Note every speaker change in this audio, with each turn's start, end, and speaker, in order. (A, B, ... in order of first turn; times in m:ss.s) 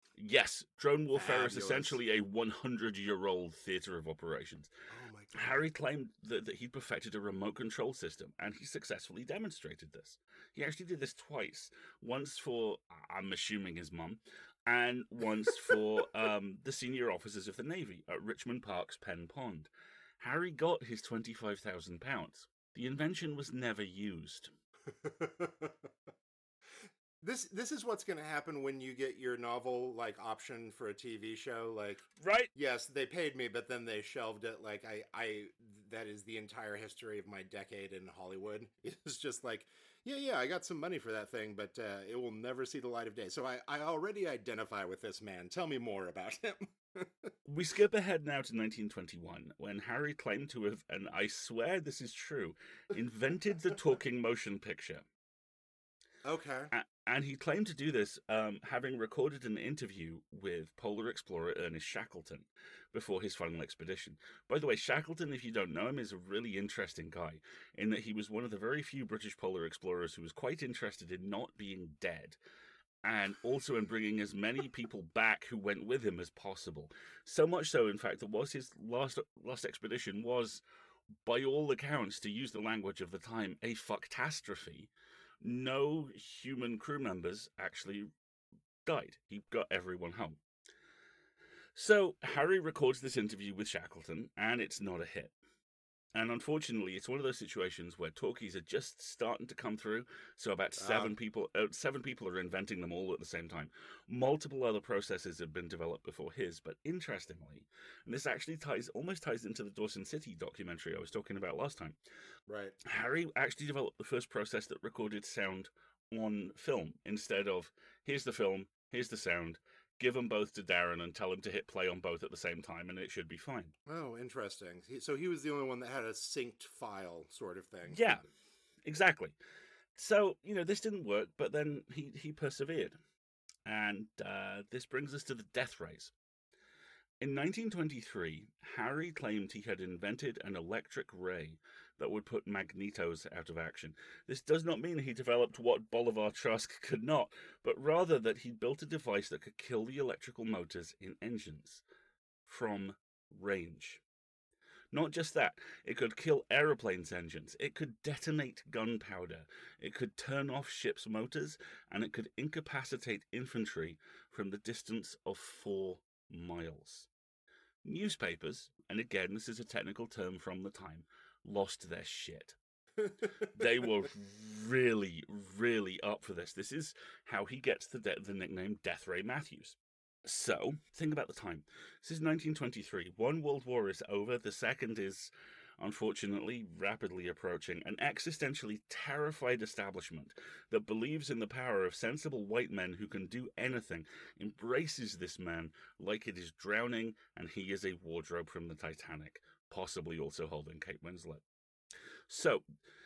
0:00.2-0:04.7 A
0:01.1-0:02.0 B
0:04.9-0:05.6 B
0:05.3-0:19.7 A
0:20.2-0:24.5 A
0:24.9-0:25.9 B
0:26.8-0:47.3 B
0:32.2-0:32.5 A
0:47.4-0:55.0 A
0:56.2-0:56.7 B
0:56.7-1:12.4 A
1:13.0-1:20.6 A
1:21.2-1:24.9 A
1:25.4-1:28.1 A
1:28.8-1:30.4 A
1:31.8-1:35.3 A
1:36.1-1:52.0 A
1:40.8-1:41.2 B
1:52.5-1:52.8 B
1:52.8-2:03.7 A
2:03.8-2:08.2 B
2:07.9-2:08.2 A
2:08.8-2:09.4 A
2:10.0-2:13.0 A
2:13.6-2:16.1 A
2:17.2-2:31.8 A
2:32.4-2:34.0 A
2:34.9-2:47.1 A
2:47.8-2:52.6 A
2:53.4-3:21.4 A
3:22.3-3:22.6 A